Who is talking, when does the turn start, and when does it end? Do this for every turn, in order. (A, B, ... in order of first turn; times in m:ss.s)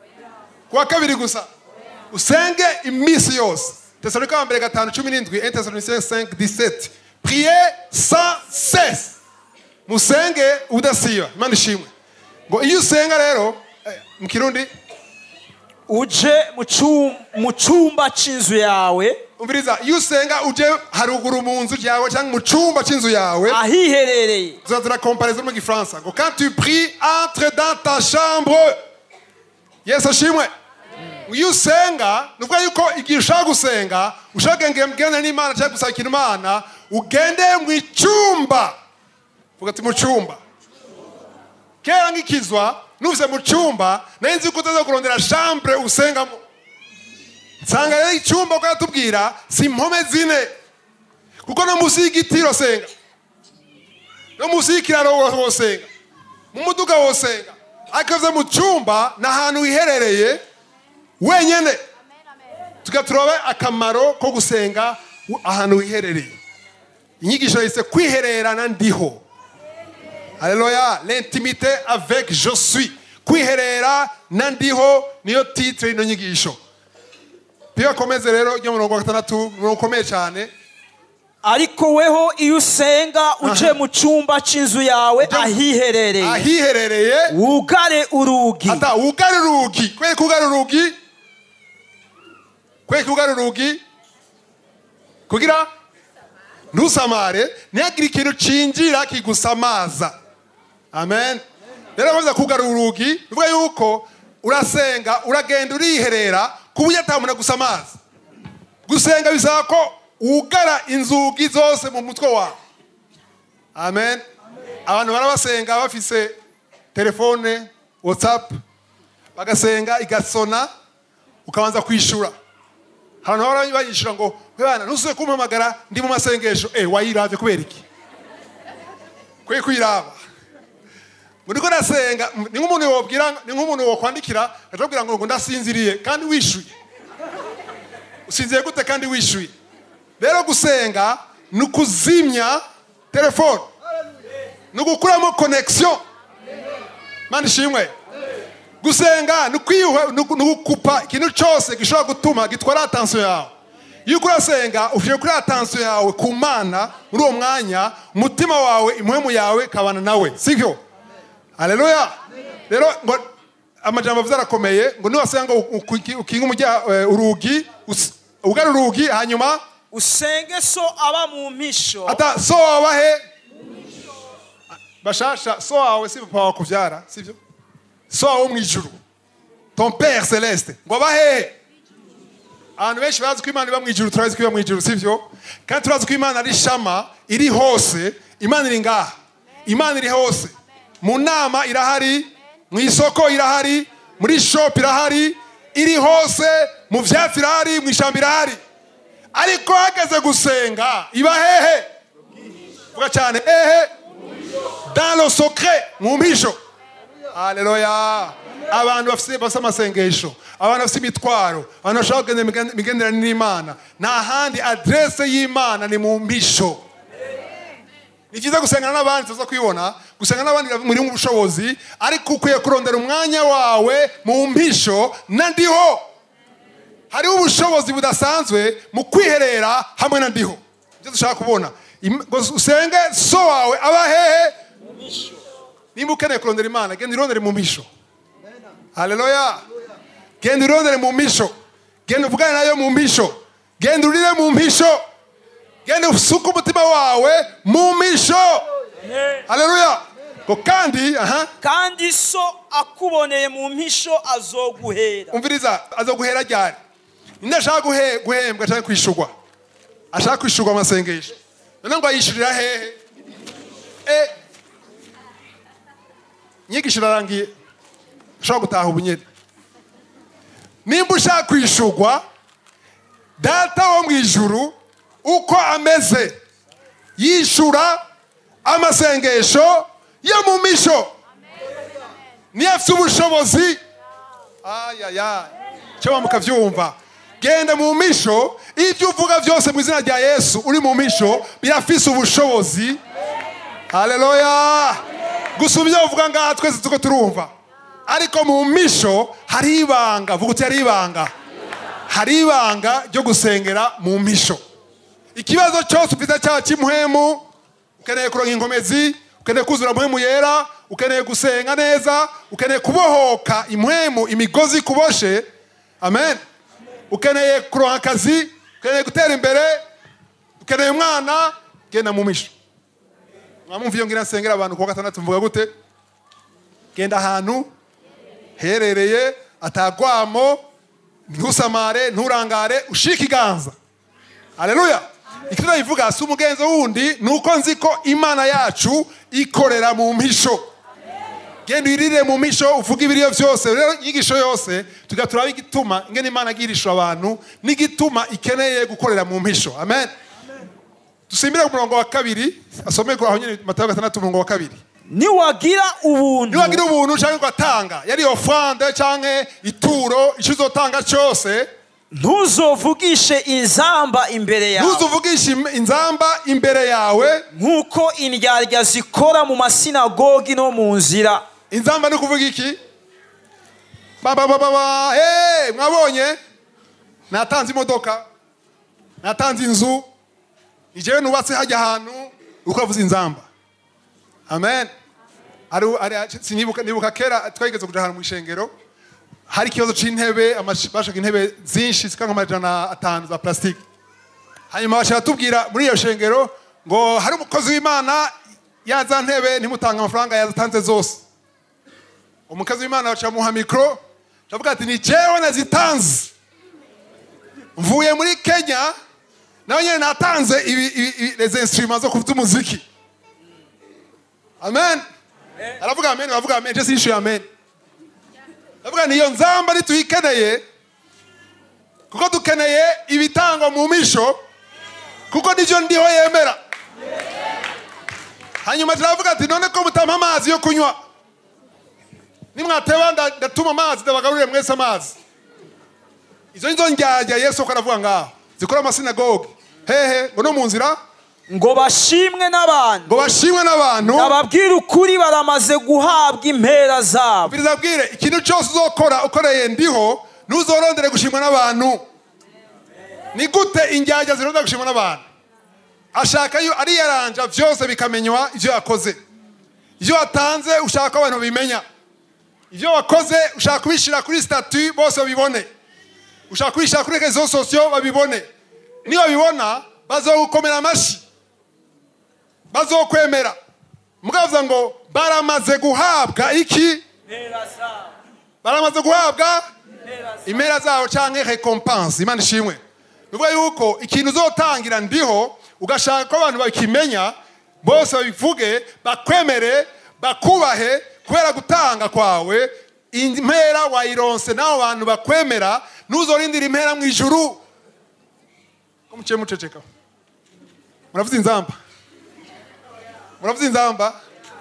0:00.7-0:01.4 A
0:02.1-0:09.2 A
0:09.9-0:11.9 A
0:12.5-0:14.7 A
0:15.9-0:19.2 B
0:19.4-0:23.6 A
0:23.5-0:24.6 B
0:24.6-0:28.7 A
0:29.8-0:30.5 A
0:31.3-0:38.8 A
0:39.6-0:40.4 A
0:41.8-0:46.4 A
0:47.6-0:50.5 A
0:51.4-0:52.9 A
0:54.4-0:55.9 A
0:56.5-1:00.4 A
1:01.2-1:01.8 A
1:02.8-1:06.4 A
1:07.2-1:09.2 A
1:10.4-1:16.6 A
1:17.7-1:20.5 A
1:21.4-1:26.4 B
1:23.4-1:23.8 A
1:25.2-1:25.6 A
1:26.2-1:27.3 A
1:27.3-1:28.8 B
1:28.7-1:30.9 A
1:32.9-1:33.8 A
1:35.3-1:35.7 A
1:36.7-1:40.1 A
1:40.9-1:41.4 A
1:42.0-1:48.0 A
1:48.8-1:52.6 A
1:53.7-1:54.2 A
1:54.9-1:56.3 A
1:56.9-1:58.5 A
1:59.4-2:00.7 A
2:01.4-2:02.3 A
2:03.2-2:07.8 A
2:09.4-2:10.1 A
2:11.4-2:16.7 A
2:18.3-2:19.5 A
2:20.2-2:22.6 A
2:23.1-2:23.7 A
2:24.7-2:26.0 A
2:27.3-2:27.9 A
2:28.8-2:33.5 A
2:34.0-2:40.8 A
2:41.6-2:42.2 A
2:42.7-2:43.2 A
2:43.8-2:49.6 A
2:49.9-2:52.2 B
2:52.0-2:53.2 A
2:55.0-2:57.4 A
2:58.1-2:58.9 A
2:59.8-3:01.6 A
3:02.8-3:09.1 A
3:09.6-3:18.6 A
3:19.3-3:21.9 A
3:22.9-3:23.9 A
3:24.9-3:26.6 A
3:27.3-3:36.8 A
3:38.3-3:46.1 A
3:47.1-3:54.5 A
3:55.9-3:57.9 A
3:58.9-3:59.6 A
4:00.4-4:01.5 A
4:02.0-4:05.0 A
4:05.8-4:08.6 A
4:09.5-4:11.5 A
4:11.6-4:15.4 B
4:15.3-4:16.8 A
4:17.4-4:19.3 A
4:20.1-4:23.0 A
4:24.0-4:24.3 A
4:26.7-4:27.5 A
4:28.4-4:29.2 A
4:30.8-4:32.2 A
4:33.4-4:36.4 A
4:37.2-4:38.0 A
4:38.6-4:41.1 A
4:42.5-4:43.8 A
4:44.6-4:53.0 A
4:53.9-4:55.0 A
4:55.6-4:57.5 A
4:58.1-5:01.3 A
5:02.1-5:04.6 A
5:05.3-5:07.5 A
5:08.0-5:15.4 A
5:16.0-5:16.4 A
5:17.1-5:19.8 A
5:20.6-5:22.5 A
5:23.7-5:25.7 A
5:26.9-5:27.7 A
5:28.6-5:30.6 A
5:31.3-5:33.7 A
5:34.6-5:40.7 A
5:41.6-5:50.1 A
5:51.3-5:54.8 A
5:55.1-5:56.8 B
5:56.5-6:01.7 A
6:02.1-6:05.1 B
6:04.8-6:07.4 A
6:07.5-6:11.4 B
6:11.7-6:12.8 A
6:14.2-6:16.4 A
6:17.3-6:18.2 A
6:19.2-6:20.1 A
6:20.9-6:23.5 A
6:24.5-6:24.9 A
6:25.7-6:28.7 A
6:29.5-6:33.8 A
6:34.7-6:38.3 A
6:38.8-6:41.2 A
6:42.5-6:46.3 A
6:47.8-6:48.9 A
6:49.7-6:52.8 A
6:54.6-6:55.0 A
6:55.8-6:57.4 A
6:58.8-7:00.6 A
7:02.1-7:04.4 A
7:05.3-7:06.6 A
7:08.6-7:10.9 A
7:12.5-7:15.2 A
7:16.5-7:21.0 A
7:21.5-7:23.2 B
7:23.1-7:24.4 A
7:24.0-7:27.5 B
7:27.4-7:32.0 A
7:33.3-7:35.2 A
7:36.1-7:39.2 A
7:40.0-7:41.8 A
7:42.7-7:45.7 A
7:46.5-7:48.4 A
7:49.0-7:51.2 A
7:52.7-7:53.6 A
7:54.2-7:57.0 A
7:58.6-7:59.6 A
8:00.4-8:02.8 A
8:03.3-8:17.6 A
8:19.1-8:19.8 A
8:21.1-8:21.8 A
8:23.4-8:24.1 A